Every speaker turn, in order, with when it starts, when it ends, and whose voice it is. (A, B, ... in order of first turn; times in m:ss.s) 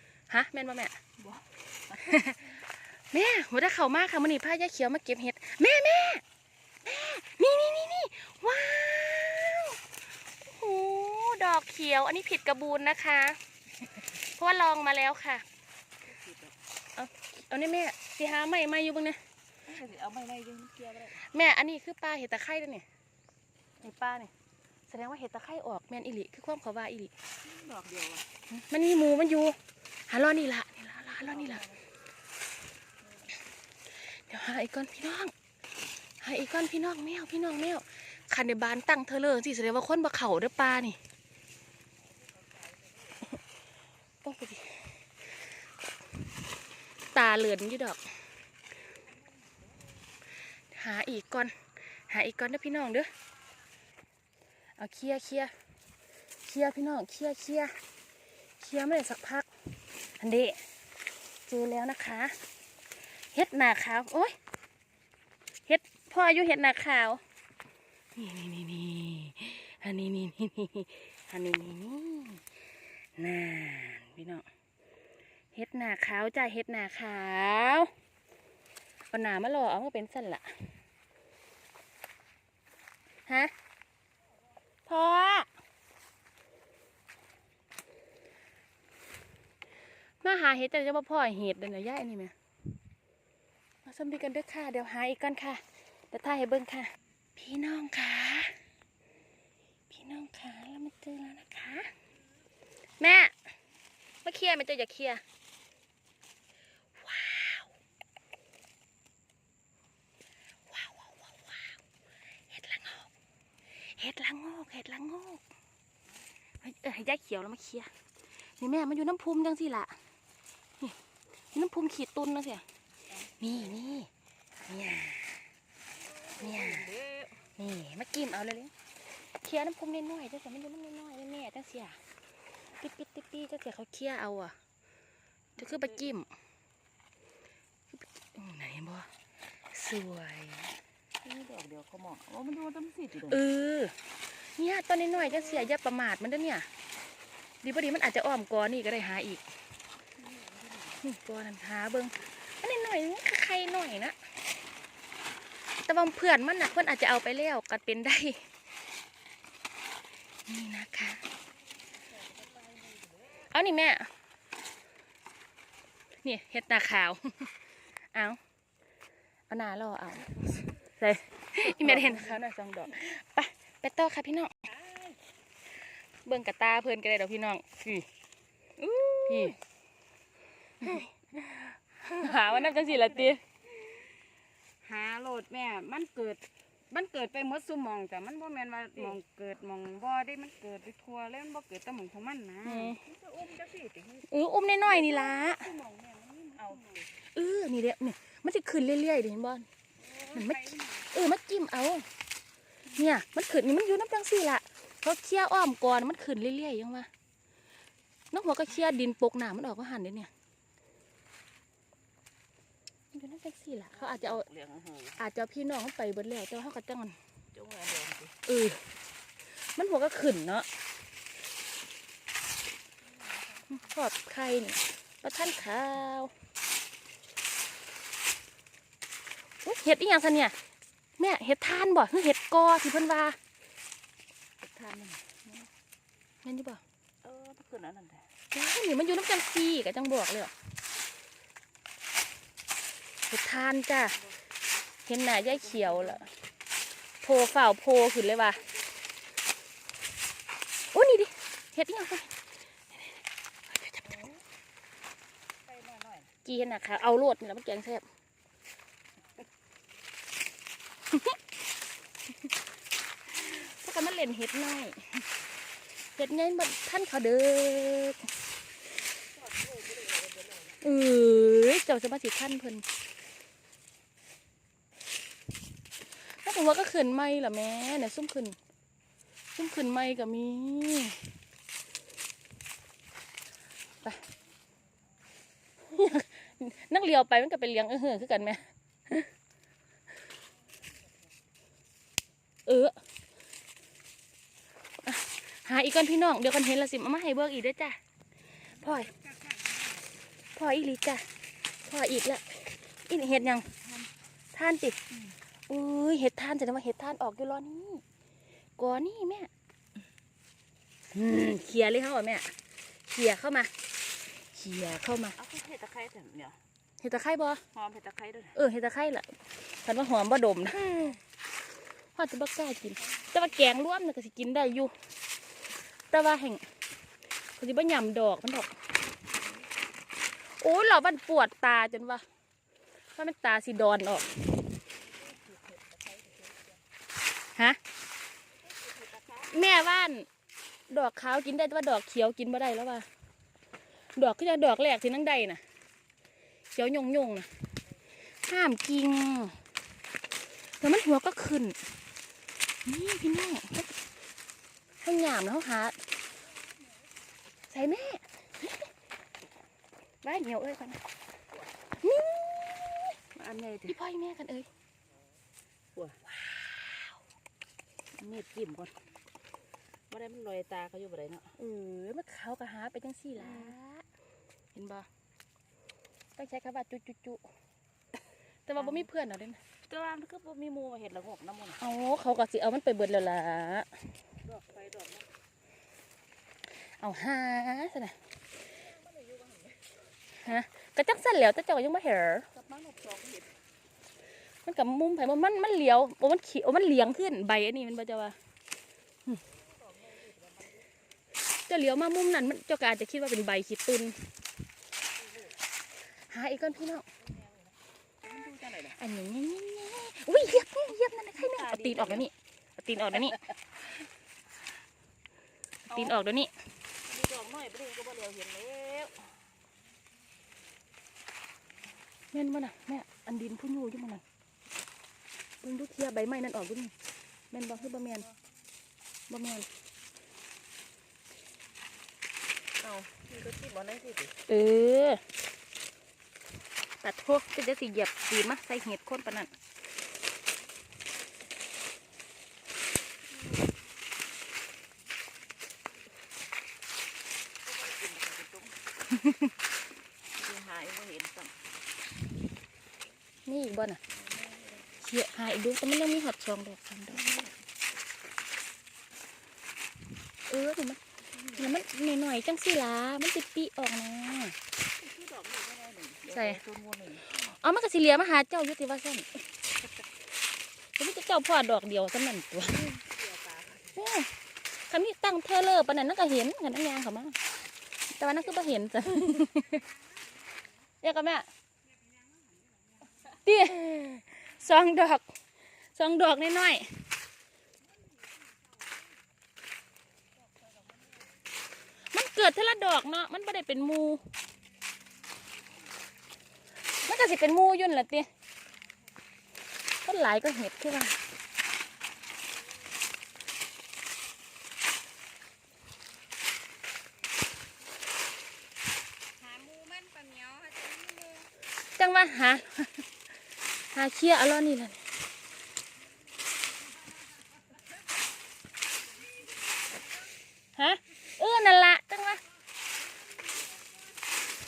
0:00.3-0:01.0 A
0:01.2-0:02.3 B
0:02.0-0:06.2 A
0:06.8-0:09.8 A
0:10.4-0:13.4 A
0:14.1-0:15.4 A
0:16.0-0:16.6 B
0:17.0-0:19.2 A
0:19.6-0:21.2 B
0:21.2-0:22.8 A
0:23.8-0:24.3 A
0:24.9-0:27.1 A
0:27.4-0:28.3 B
0:28.5-0:31.6 A
0:31.2-0:31.8 B
0:34.0-0:35.3 A
0:36.2-0:41.0 A
0:42.4-0:42.9 B
0:44.2-0:45.0 A
0:47.1-0:48.0 A
0:50.7-0:51.5 A
0:52.1-0:53.1 A
0:54.8-0:55.5 A
0:56.4-0:57.7 A
0:58.6-0:59.5 A
1:00.2-1:00.6 A
1:01.5-1:02.4 A
1:03.3-1:04.4 A
1:05.7-1:07.2 A
1:08.2-1:12.5 A
1:13.2-1:14.5 A
1:15.5-1:17.9 A
1:19.1-1:20.8 A
1:23.3-1:23.5 A
1:24.9-1:25.5 A
1:30.2-1:32.3 A
1:33.8-1:38.6 A
1:39.9-1:41.9 A
1:43.0-1:43.3 A
1:44.2-1:45.2 A
1:47.0-1:47.7 A
1:50.7-1:51.8 A
1:52.5-1:53.1 A
1:53.8-1:55.4 A
1:56.6-1:57.9 A
1:58.6-2:00.0 A
2:01.5-2:02.6 A
2:03.1-2:03.6 B
2:03.4-2:04.1 A
2:04.7-2:05.5 A
2:06.1-2:07.5 B
2:06.4-2:06.9 A
2:07.6-2:08.7 A
2:09.3-2:12.0 A
2:12.8-2:14.5 A
2:15.6-2:16.1 B
2:15.6-2:16.3 A
2:18.0-2:19.1 A
2:19.7-2:20.8 A
2:21.2-2:23.4 B
2:23.3-2:26.7 A
2:27.6-2:29.4 A
2:30.2-2:31.0 B
2:31.0-2:34.2 A
2:35.9-2:38.5 A
2:40.5-2:41.2 A
2:42.1-2:43.3 B
2:43.5-2:44.1 A
2:46.2-2:47.5 A
2:48.1-2:48.4 A
2:49.5-2:50.4 A
2:50.9-2:54.7 A
2:51.6-2:52.4 B
2:54.8-2:55.2 B
2:56.2-2:58.1 A
2:58.8-2:59.6 B
2:59.2-2:59.6 A
3:00.8-3:03.4 A
3:02.1-3:03.4 B
3:04.8-3:17.1 B
3:12.6-3:13.0 A
3:14.3-3:15.7 A
3:17.3-3:19.7 A
3:20.0-3:21.1 B
3:20.3-3:22.1 A
3:22.9-3:27.1 A
3:28.3-3:30.3 A
3:33.1-3:34.5 A
3:33.9-3:35.2 B
3:35.2-3:37.2 A
3:37.5-3:38.4 B
3:38.4-3:38.9 A
3:39.5-3:40.7 A
3:43.1-3:43.9 B
3:43.7-3:46.3 A
3:49.6-3:50.6 A
3:51.2-3:53.4 A
3:54.6-3:55.5 B
3:56.4-3:56.8 A
3:57.2-3:58.3 B
3:58.5-4:00.5 A
4:03.3-4:04.2 A
4:05.1-4:06.3 A
4:05.5-4:06.2 B
4:07.2-4:08.6 A
4:10.9-4:12.3 A
4:12.9-4:14.2 A
4:15.6-4:16.3 B
4:16.4-4:18.1 A
4:23.3-4:25.3 A
4:26.0-4:28.3 A
4:29.4-4:30.8 B
4:30.8-4:32.8 A
4:36.2-4:38.6 A
4:39.6-4:41.4 A
4:45.8-4:49.3 A
4:52.7-4:53.0 A
4:55.0-4:58.0 A
4:58.8-4:59.1 A
4:58.8-5:00.1 B
5:00.6-5:01.3 A
5:01.8-5:03.7 A
5:04.5-5:05.0 A
5:05.7-5:08.0 A
5:08.8-5:09.5 A
5:11.1-5:12.6 A
5:13.1-5:13.7 A
5:14.3-5:15.4 A
5:15.4-5:16.6 B
5:17.0-5:17.6 A
5:17.7-5:18.6 B
5:18.6-5:19.3 A
5:19.8-5:21.2 A
5:22.2-5:24.9 A
5:26.1-5:26.6 A
5:27.6-5:28.8 A
5:30.4-5:32.2 A
5:33.2-5:34.7 A
5:35.0-5:36.8 B
5:38.6-5:40.0 B
5:39.5-5:40.3 A
5:40.9-5:43.1 A
5:44.2-5:45.6 A
5:46.7-5:47.5 A
5:48.4-5:49.6 A
5:50.8-5:51.8 A
5:52.8-5:53.9 A
5:55.0-5:56.0 A
5:57.7-5:58.2 A
6:00.2-6:01.0 A
6:02.0-6:03.2 A
6:03.4-6:04.0 B
6:03.9-6:04.7 A
6:08.2-6:09.0 B
6:10.1-6:11.6 B
6:11.6-6:14.0 A
6:13.4-6:13.8 B
6:14.7-6:15.1 A
6:16.4-6:17.4 A
6:18.7-6:19.6 A
6:18.8-6:19.1 B
6:19.9-6:21.8 B
6:21.8-6:24.0 A
6:24.4-6:25.3 B
6:26.9-6:28.2 A
6:28.8-6:29.9 B
6:30.4-6:32.5 A
6:32.5-6:33.5 B
6:34.6-6:38.4 A
6:39.8-6:40.9 B
6:41.7-6:44.4 A
6:46.3-6:47.1 A
6:47.4-6:47.7 B
6:48.2-6:49.0 B
6:48.9-6:53.4 A
6:51.4-6:52.3 B
6:55.9-6:56.5 A
6:55.9-6:56.2 B
6:57.0-6:59.4 B
7:02.3-7:04.2 A
7:05.6-7:06.9 A
7:07.5-7:08.3 A
7:09.3-7:09.7 A
7:12.8-7:14.4 B
7:14.5-7:15.2 A
7:17.0-7:19.5 A
7:27.6-7:28.8 B
7:29.2-7:29.5 A
7:30.3-7:31.6 B
7:33.5-7:34.0 A
7:34.3-7:34.8 B
7:35.0-7:37.2 A
7:37.2-7:37.5 B
7:40.5-7:41.0 A
7:41.3-7:41.8 B
7:41.5-7:44.6 A
7:44.9-7:47.3 B
7:46.3-7:46.6 A
7:47.2-7:49.3 A
7:51.0-7:53.0 A
7:53.0-7:54.0 B
7:54.0-7:57.4 A
7:58.1-7:59.9 A
8:01.0-8:01.5 A
8:02.4-8:03.0 B
8:03.2-8:05.3 A
8:06.0-8:07.1 A
8:10.6-8:11.1 B
8:12.1-8:14.2 A
8:17.0-8:18.3 A
8:20.0-8:21.2 A
8:29.4-8:31.5 B
8:32.0-8:33.1 A
8:33.9-8:35.0 A
8:40.8-8:42.4 A